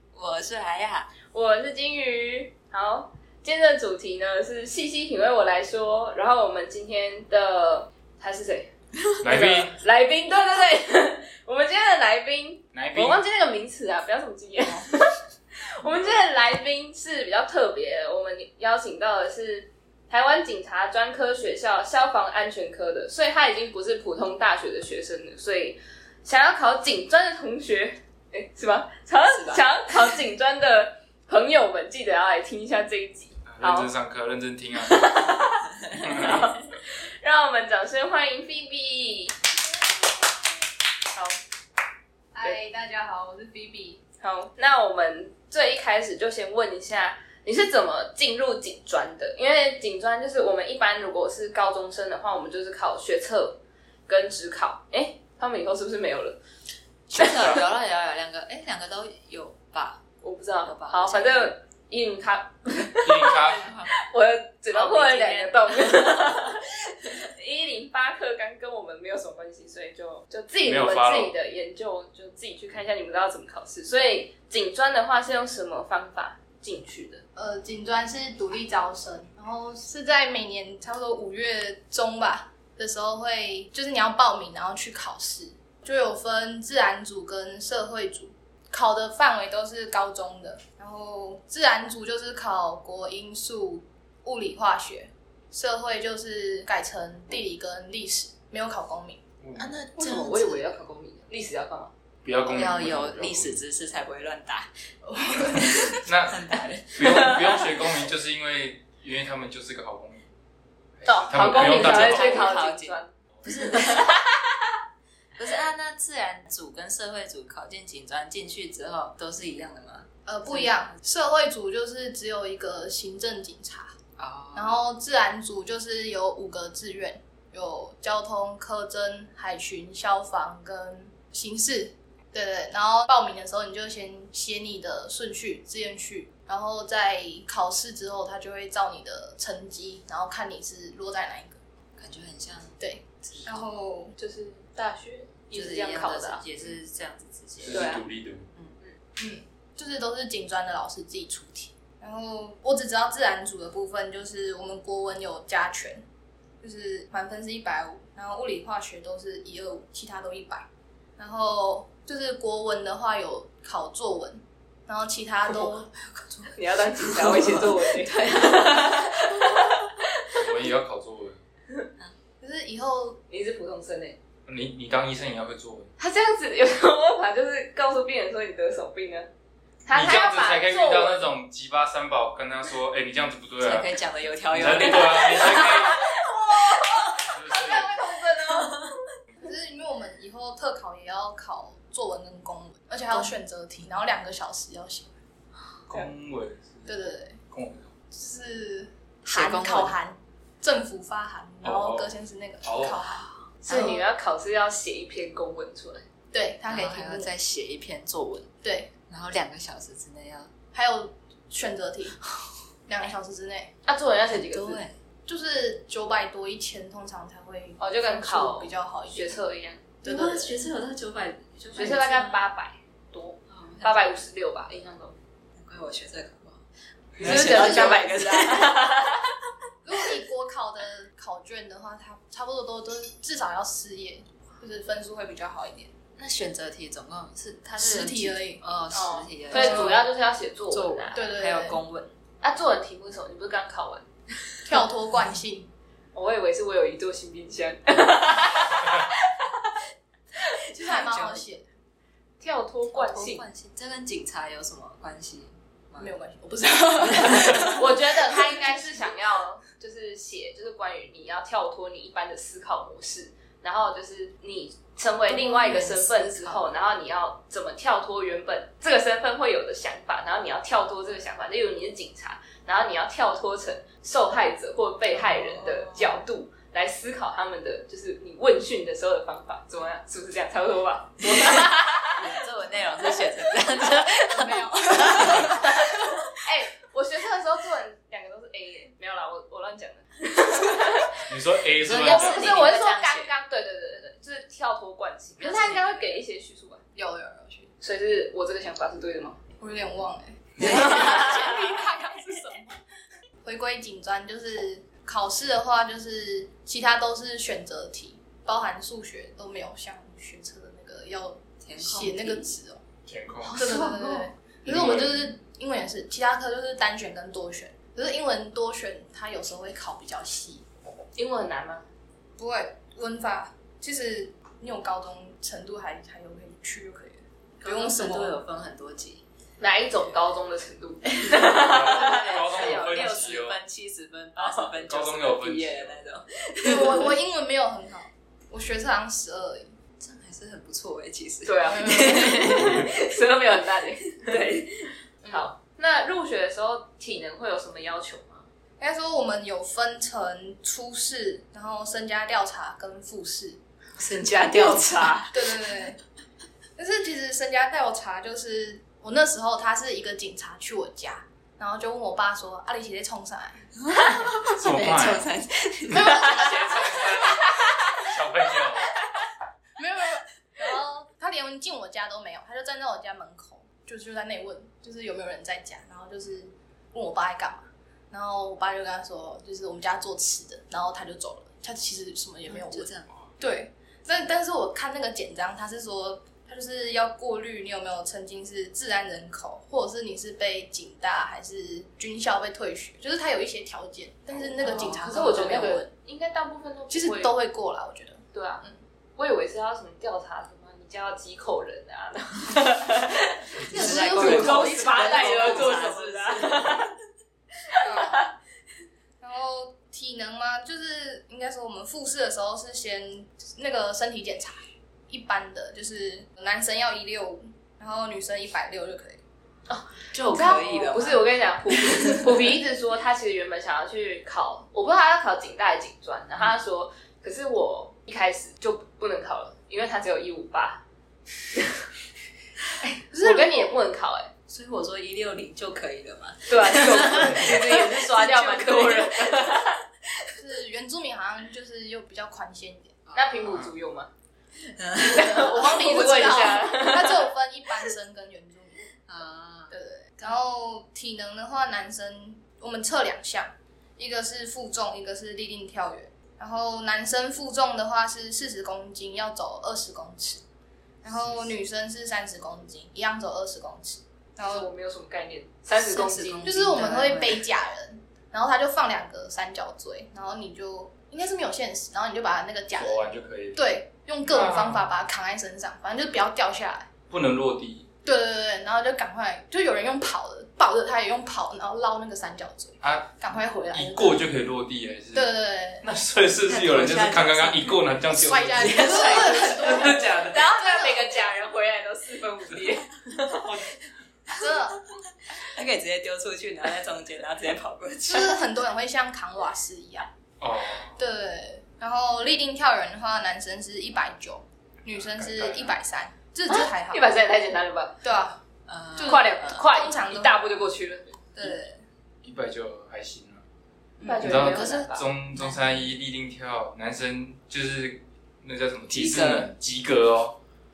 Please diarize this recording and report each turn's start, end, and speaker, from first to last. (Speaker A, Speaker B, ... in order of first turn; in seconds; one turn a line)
Speaker A: 0.1-1.1
Speaker B: 1.3-33.9
Speaker C: 9.2-9.8
Speaker C: 12.7-13.2
Speaker A: 29.3-29.6
Speaker C: 33.5-35.1
Speaker B: 34.8-39.4
Speaker A: 35.2-36.4
Speaker C: 36.0-36.4
Speaker B: 41.1-41.4
Speaker D: 42.3-44.0
Speaker B: 44.2-56.4
Speaker C: 57.1-57.6
Speaker A: 57.1-60.0
Speaker B: 60.2-77.2
Speaker A: 60.6-61.5
Speaker C: 63.0-63.6
Speaker A: 63.3-63.9
Speaker A: 64.7-67.1
Speaker C: 70.6-71.3
Speaker D: 77.4-99.2
Speaker C: 99.4-99.8
Speaker A: 99.6-100.8
Speaker B: 100.0-101.9
Speaker C: 102.2-103.6
Speaker A: 102.5-104.7
Speaker D: 105.0-106.0
Speaker A: 105.4-107.9
Speaker C: 106.1-110.3
Speaker B: 107.0-107.4
Speaker C: 111.0-112.5
Speaker B: 111.0-114.4
Speaker A: 111.3-114.2
Speaker A: 115.4-120.9
Speaker D: 120.3-124.0
Speaker A: 124.2-124.8
Speaker D: 124.5-141.6
Speaker A: 142.0-143.6
Speaker D: 142.8-144.2
Speaker B: 144.2-146.4
Speaker A: 145.5-148.0
Speaker C: 147.6-148.5
Speaker B: 147.7-148.0
Speaker D: 149.2-156.0
Speaker D: 156.6-160.7
Speaker D: 161.2-165.9
Speaker A: 166.0-170.5
Speaker B: 166.5-169.9
Speaker C: 170.3-171.4
Speaker D: 172.4-173.2
Speaker B: 173.3-174.2
Speaker C: 174.5-175.9
Speaker B: 176.0-179.3
Speaker B: 179.9-181.3
Speaker C: 179.9-183.9
Speaker A: 183.6-187.4
Speaker C: 184.5-186.0
Speaker B: 184.8-189.0
Speaker C: 187.2-187.9
Speaker A: 188.5-188.9
Speaker D: 189.4-195.1
Speaker C: 195.9-197.9
Speaker D: 196.9-197.4
Speaker D: 198.1-204.1
Speaker A: 199.3-199.9
Speaker C: 201.6-203.0
Speaker B: 203.7-206.1
Speaker A: 203.7-204.0
Speaker D: 206.3-207.3
Speaker A: 206.7-208.5
Speaker D: 208.6-208.9
Speaker A: 209.1-210.5
Speaker D: 210.7-212.2
Speaker D: 212.9-213.7
Speaker B: 213.9-214.8
Speaker A: 214.3-215.0
Speaker D: 215.3-219.4
Speaker B: 217.8-219.9
Speaker A: 220.0-222.4
Speaker D: 220.0-220.6
Speaker B: 221.7-225.2
Speaker A: 223.5-224.0
Speaker A: 225.6-226.6
Speaker A: 227.2-229.2
Speaker B: 227.2-229.2
Speaker D: 227.2-228.1
Speaker D: 229.8-235.9
Speaker A: 236.2-240.1
Speaker D: 237.8-238.6
Speaker B: 238.9-241.3
Speaker D: 239.5-240.0
Speaker A: 240.7-242.2
Speaker D: 241.1-241.8
Speaker B: 242.4-244.1
Speaker D: 244.7-245.7
Speaker B: 246.1-249.5
Speaker A: 250.5-251.4
Speaker D: 250.7-251.7
Speaker B: 252.4-253.4
Speaker A: 252.9-256.1
Speaker D: 256.0-259.1
Speaker A: 257.0-257.8
Speaker B: 257.6-282.4
Speaker A: 265.3-266.7
Speaker A: 275.1-276.2
Speaker A: 281.4-285.8
Speaker D: 284.3-286.2
Speaker B: 285.4-285.8
Speaker B: 286.3-291.3
Speaker C: 291.3-292.5
Speaker A: 291.8-293.3
Speaker B: 291.9-296.8
Speaker D: 292.1-292.9
Speaker D: 295.4-296.2
Speaker D: 296.9-297.7
Speaker B: 297.8-299.4
Speaker D: 299.6-302.8
Speaker A: 300.6-301.4
Speaker B: 300.7-301.2
Speaker D: 303.4-312.8
Speaker A: 311.6-312.5
Speaker C: 313.1-313.8
Speaker D: 313.5-320.6
Speaker A: 313.6-314.2
Speaker C: 314.6-315.4
Speaker B: 321.1-321.9
Speaker D: 322.4-328.4
Speaker A: 327.6-329.2
Speaker B: 329.6-333.2
Speaker A: 331.1-337.1
Speaker C: 331.6-333.6
Speaker B: 334.4-334.8
Speaker C: 334.9-336.0
Speaker D: 336.6-339.7
Speaker A: 340.0-343.6
Speaker B: 341.4-348.5
Speaker D: 341.7-342.4
Speaker A: 344.1-344.7
Speaker D: 348.8-353.6
Speaker A: 354.0-355.7
Speaker B: 354.6-355.1
Speaker D: 355.3-356.0
Speaker D: 356.8-363.6
Speaker A: 363.9-366.5
Speaker C: 364.5-365.3
Speaker D: 365.9-367.4
Speaker C: 366.2-369.0
Speaker D: 369.8-395.9
Speaker A: 382.5-383.2
Speaker A: 394.6-395.5
Speaker B: 394.6-397.3
Speaker D: 396.9-398.8
Speaker B: 398.3-398.6
Speaker B: 399.2-407.0
Speaker A: 403.6-406.9
Speaker D: 403.7-405.9
Speaker D: 407.8-408.3
Speaker D: 409.2-419.2
Speaker B: 419.7-430.8
Speaker A: 420.1-422.5
Speaker D: 420.4-421.0
Speaker B: 431.6-431.8
Speaker B: 432.8-434.3
Speaker D: 433.1-433.8
Speaker A: 434.5-440.3
Speaker B: 436.5-439.8
Speaker D: 440.4-442.9
Speaker A: 443.1-443.6
Speaker B: 443.1-444.1
Speaker A: 444.6-445.6
Speaker B: 445.0-447.3
Speaker D: 445.3-448.9
Speaker A: 449.1-449.7
Speaker D: 449.7-460.4
Speaker D: 461.0-464.6
Speaker C: 461.2-461.4
Speaker B: 464.4-466.6
Speaker A: 465.8-467.4
Speaker D: 466.4-476.9
Speaker C: 472.8-473.6
Speaker C: 474.2-474.9
Speaker C: 477.1-477.9
Speaker D: 478.1-484.2
Speaker C: 482.8-483.2
Speaker C: 483.7-485.3
Speaker D: 485.1-485.9
Speaker C: 485.8-490.4
Speaker A: 486.5-487.8
Speaker D: 488.1-491.0
Speaker A: 488.5-489.9
Speaker B: 488.8-493.5
Speaker C: 493.4-493.7
Speaker D: 494.3-494.8
Speaker A: 495.3-498.4
Speaker D: 498.1-500.1
Speaker C: 500.4-501.0
Speaker D: 501.0-507.1
Speaker C: 504.9-505.8
Speaker B: 506.5-508.0
Speaker D: 508.0-508.4
Speaker A: 508.7-509.7
Speaker D: 509.0-510.4
Speaker B: 509.0-511.2
Speaker D: 511.4-511.8
Speaker C: 512.2-513.4
Speaker B: 514.0-515.1
Speaker C: 514.2-520.4
Speaker A: 514.2-515.8
Speaker A: 518.9-519.5